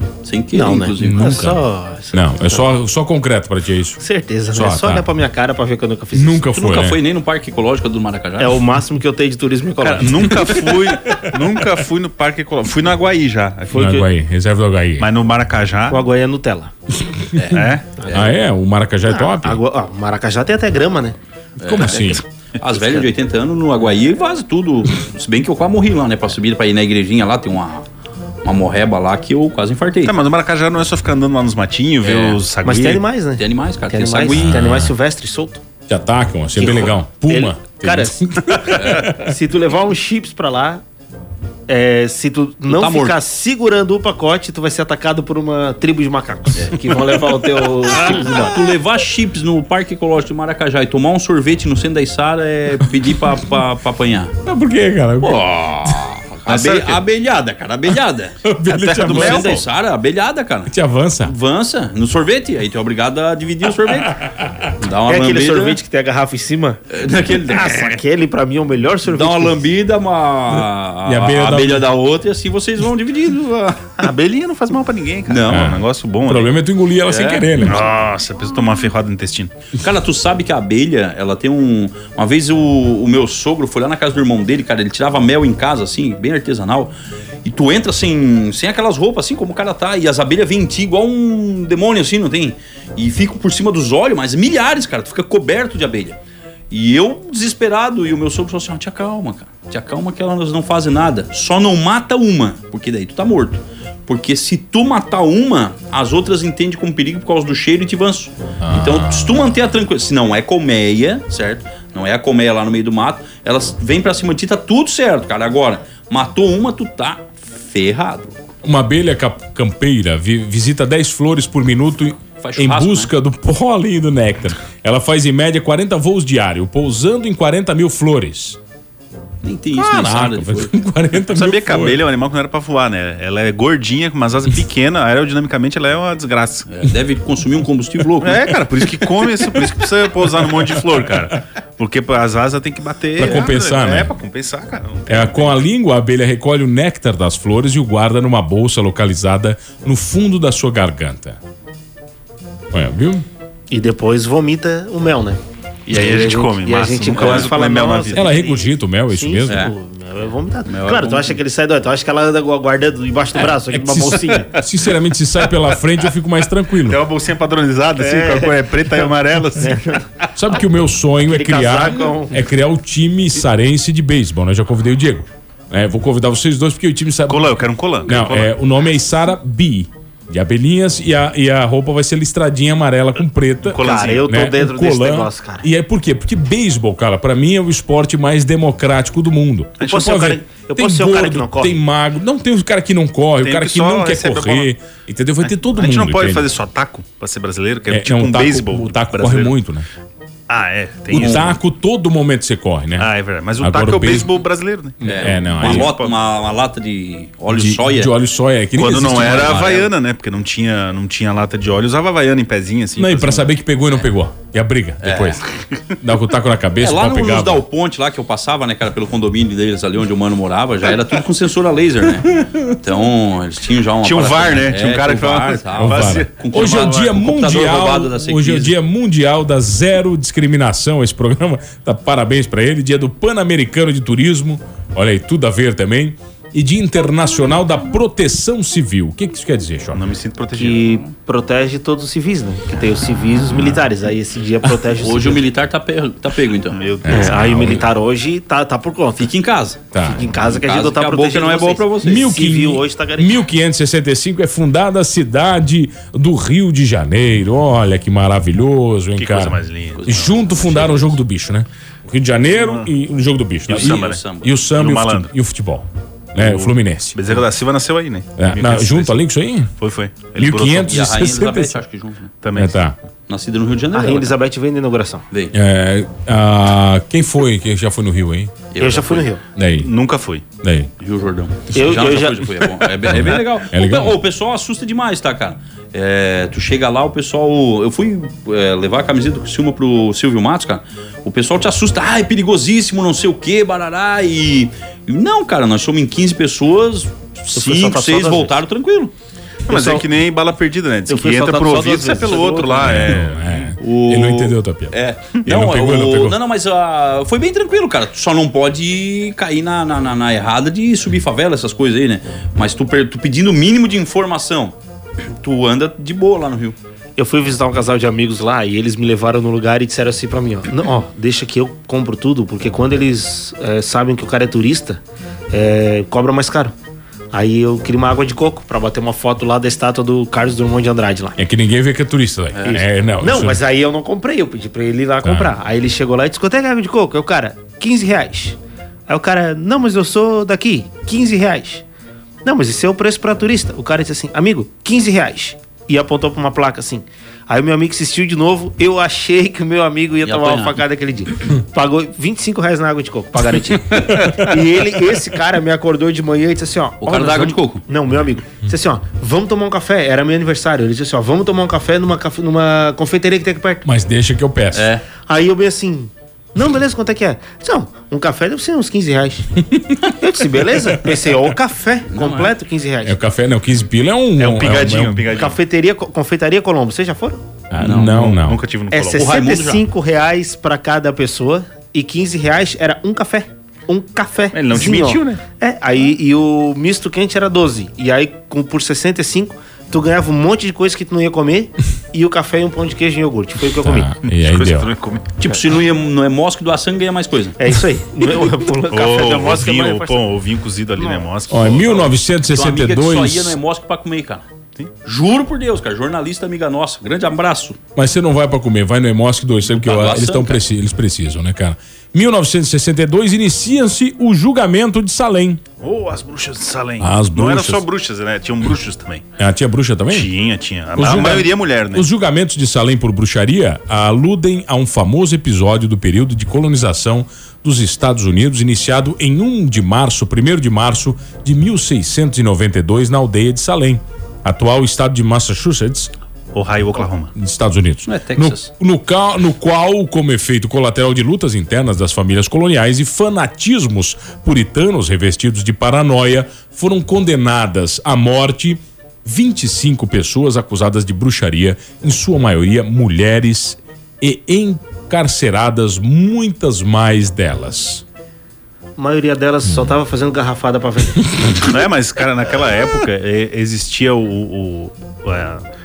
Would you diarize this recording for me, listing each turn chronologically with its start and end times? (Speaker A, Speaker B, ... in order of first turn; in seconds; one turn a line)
Speaker A: 0.2-1.4
Speaker B: 0.5-2.7
Speaker C: 1.0-4.0
Speaker B: 4.0-6.5
Speaker C: 4.5-5.0
Speaker C: 6.2-7.0
Speaker A: 6.5-8.6
Speaker B: 8.4-10.5
Speaker D: 9.8-14.0
Speaker C: 10.0-10.6
Speaker B: 13.7-14.1
Speaker C: 13.7-15.1
Speaker D: 15.0-16.1
Speaker B: 15.9-16.7
Speaker C: 17.0-17.6
Speaker A: 17.4-18.3
Speaker D: 17.5-17.8
Speaker B: 18.0-18.3
Speaker C: 18.1-19.6
Speaker B: 19.1-21.2
Speaker A: 21.6-27.9
Speaker C: 21.6-22.2
Speaker A: 28.4-30.2
Speaker D: 30.1-33.0
Speaker A: 32.0-32.4
Speaker B: 32.6-35.6
Speaker A: 33.4-34.8
Speaker C: 34.3-34.9
Speaker C: 35.9-39.3
Speaker B: 36.6-40.8
Speaker A: 38.8-39.1
Speaker B: 41.7-48.5
Speaker A: 42.7-43.2
Speaker A: 47.9-54.4
Speaker C: 54.5-56.0
Speaker A: 55.2-64.2
Speaker D: 56.5-57.0
Speaker C: 58.4-59.6
Speaker D: 58.7-59.6
Speaker C: 60.7-61.4
Speaker C: 64.2-64.7
Speaker A: 64.8-65.8
Speaker B: 65.1-69.6
Speaker A: 66.9-68.0
Speaker A: 69.1-73.8
Speaker C: 70.5-71.9
Speaker D: 74.0-76.5
Speaker A: 75.3-75.7
Speaker C: 75.5-77.9
Speaker A: 77.1-77.9
Speaker D: 77.6-79.5
Speaker A: 79.8-86.9
Speaker A: 87.4-96.2
Speaker A: 96.7-118.4
Speaker C: 108.6-109.5
Speaker C: 118.6-128.6
Speaker A: 122.4-123.1
Speaker A: 129.4-130.7
Speaker C: 129.8-132.0
Speaker D: 131.3-136.7
Speaker A: 136.7-138.6
Speaker D: 138.2-145.6
Speaker C: 143.2-144.1
Speaker C: 145.1-151.4
Speaker C: 152.7-153.2
Speaker B: 153.7-155.4
Speaker D: 155.9-158.4
Speaker B: 155.9-164.5
Speaker A: 157.2-157.5
Speaker C: 158.1-159.7
Speaker A: 159.5-159.7
Speaker A: 160.7-161.4
Speaker C: 163.7-167.0
Speaker D: 166.8-170.0
Speaker B: 168.0-168.6
Speaker B: 169.6-170.0
Speaker C: 170.4-196.5
Speaker B: 171.3-172.4
Speaker D: 177.3-178.5
Speaker D: 183.7-184.3
Speaker B: 183.8-185.7
Speaker B: 189.8-191.8
Speaker D: 189.8-190.2
Speaker D: 193.4-194.7
Speaker D: 195.5-199.5
Speaker C: 197.9-199.9
Speaker D: 200.5-201.6
Speaker C: 201.1-204.3
Speaker A: 201.1-201.5
Speaker D: 203.0-206.1
Speaker C: 205.0-205.9
Speaker A: 205.0-208.1
Speaker C: 207.5-209.7
Speaker D: 208.8-213.5
Speaker A: 209.1-209.9
Speaker C: 213.0-215.4
Speaker A: 215.0-215.4
Speaker C: 216.0-217.7
Speaker A: 216.8-228.8
Speaker D: 224.0-227.1
Speaker C: 225.8-240.1
Speaker D: 239.9-241.0
Speaker B: 240.6-245.4
Speaker A: 244.8-246.8
Speaker D: 246.7-247.8
Speaker C: 247.1-247.8
Speaker B: 247.1-249.3
Speaker A: 249.2-249.9
Speaker C: 249.9-250.3
Speaker B: 250.0-253.4
Speaker A: 250.4-252.2
Speaker C: 252.0-267.4
Speaker D: 259.2-260.7
Speaker A: 260.0-261.1
Speaker D: 262.5-262.9
Speaker D: 263.7-265.3
Speaker A: 263.7-264.6
Speaker D: 266.4-269.2
Speaker C: 268.4-269.7
Speaker D: 269.8-271.0
Speaker C: 270.4-271.8
Speaker A: 270.9-272.3
Speaker D: 272.4-272.8
Speaker C: 272.5-272.9
Speaker A: 273.3-274.3
Speaker B: 273.9-275.2
Speaker C: 275.5-278.5
Speaker A: 278.7-279.3
Speaker B: 278.8-279.4
Speaker C: 279.6-279.9
Speaker D: 279.8-280.4
Speaker C: 280.6-280.9
Speaker A: 281.0-299.1
Speaker B: 281.7-282.8
Speaker D: 283.1-283.4
Speaker C: 283.1-284.2
Speaker B: 297.5-298.5
Speaker B: 299.7-300.1
Speaker D: 299.7-303.7
Speaker B: 301.1-303.2
Speaker C: 302.8-306.4
Speaker A: 303.8-314.8
Speaker A: 315.4-316.8
Speaker B: 317.2-325.0
Speaker B: 325.5-326.7
Speaker B: 327.3-331.4
Speaker C: 331.4-333.6
Speaker A: 332.6-332.8
Speaker B: 332.6-338.6
Speaker C: 335.2-335.5
Speaker B: 339.1-341.8
Speaker B: 342.4-363.9
Speaker A: 350.2-350.8
Speaker A: 357.0-357.8
Speaker C: 363.9-364.9
Speaker A: 364.7-365.0
Speaker B: 365.3-373.2
Speaker A: 372.1-372.5
Speaker C: 373.0-375.3
Speaker D: 374.4-375.6
Speaker B: 375.3-377.4
Speaker C: 377.7-378.6
Speaker A: 377.8-378.3
Speaker D: 377.8-379.2
Speaker B: 378.9-394.1
Speaker A: 379.1-379.8
Speaker D: 384.5-385.4
Speaker C: 393.8-394.9
Speaker D: 394.2-395.2
Speaker A: 395.4-397.6
Speaker B: 397.6-400.2
Speaker D: 398.9-402.1
Speaker B: 401.0-401.2
Speaker C: 401.5-403.6
Speaker A: 402.5-404.4
Speaker A: 405.1-407.8
Speaker C: 408.0-415.6
Speaker A: 409.8-410.6
Speaker D: 415.8-419.2
Speaker C: 417.0-417.9
Speaker C: 419.4-420.3
Speaker D: 420.1-422.1
Speaker C: 420.9-436.1
Speaker D: 436.5-437.3
Speaker C: 437.4-458.0
Speaker A: 438.1-438.7
Speaker B: 459.0-461.8
Speaker D: 461.7-465.6